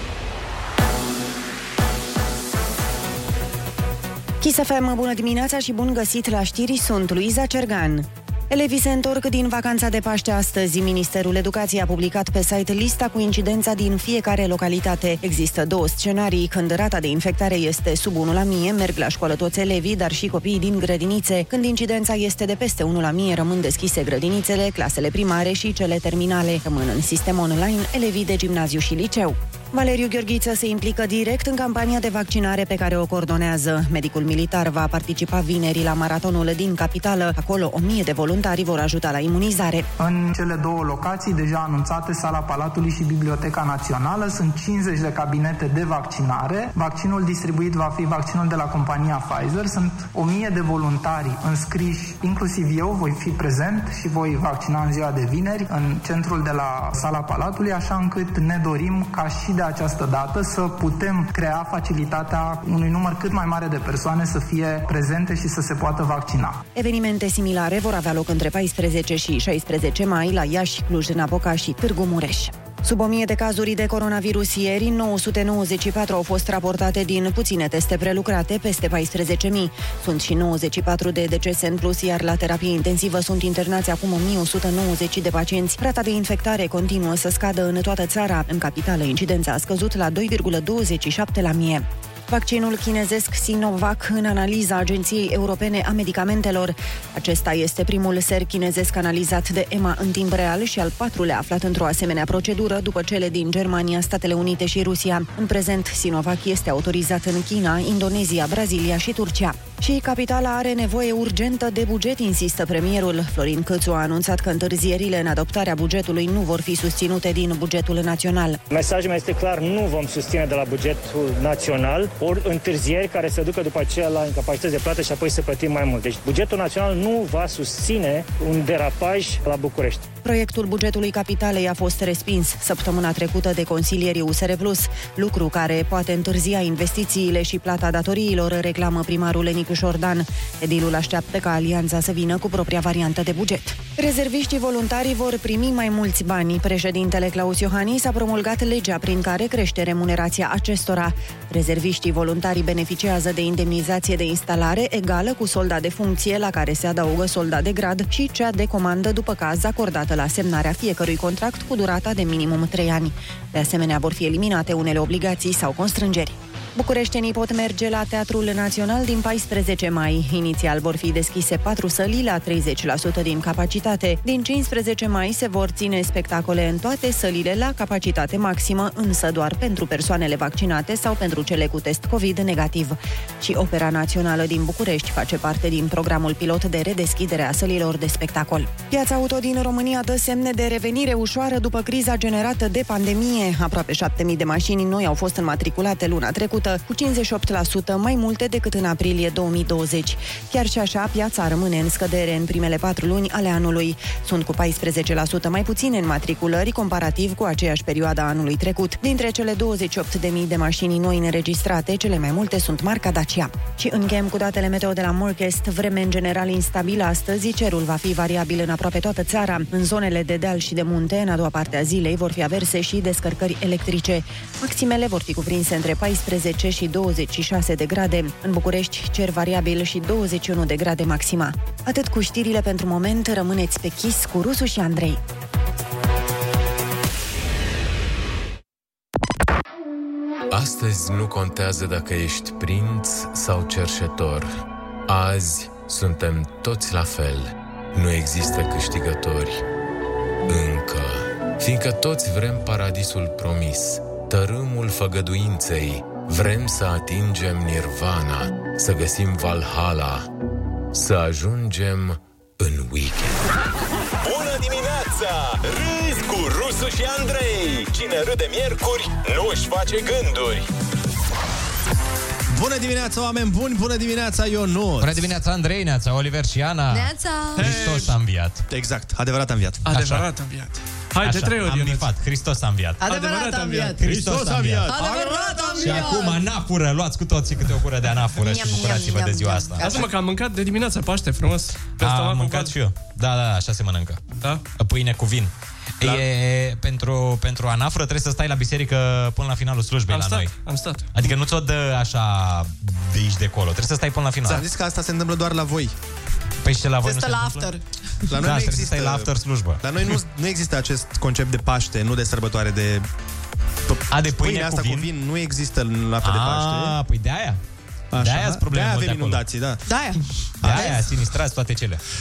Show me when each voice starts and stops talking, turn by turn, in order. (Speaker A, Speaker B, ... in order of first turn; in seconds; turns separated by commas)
Speaker A: 4.4-39.9, Speaker B: 40.0-66.6, Speaker A: 66.8-118.6, Speaker C: 118.7-130.0, Speaker A: 130.2-235.2, Speaker D: 240.5-244.6, Speaker D: 245.1-249.6, Speaker D: 250.5-260.3, Speaker D: 260.9-263.4, Speaker E: 264.2-270.6, Speaker D: 264.6-265.1, Speaker D: 268.9-270.6, Speaker F: 272.5-275.3, Speaker G: 275.0-278.6, Speaker H: 276.9-277.8, Speaker I: 277.6-278.1, Speaker F: 278.7-279.9, Speaker I: 279.8-282.1, Speaker G: 279.9-280.3, Speaker G: 281.2-283.0, Speaker H: 283.0-284.1, Speaker I: 283.0-286.2, Speaker G: 284.0-285.0, Speaker F: 284.4-284.7, Speaker H: 284.9-286.4, Speaker G: 285.8-289.9, Speaker H: 288.4-290.0, Speaker I: 289.8-292.7, Speaker G: 292.0-300.6, Speaker I: 300.1-301.1, Speaker G: 301.1-304.6, Speaker F: 304.4-305.9, Speaker G: 306.6-307.7, Speaker H: 307.0-307.8, Speaker F: 308.3-313.1, Speaker G: 308.4-309.8, Speaker F: 313.9-317.0, Speaker G: 314.1-315.1, Speaker G: 316.2-317.6, Speaker F: 318.1-319.8, Speaker G: 318.2-319.4, Speaker H: 319.9-321.0, Speaker F: 320.6-321.1, Speaker G: 320.6-322.0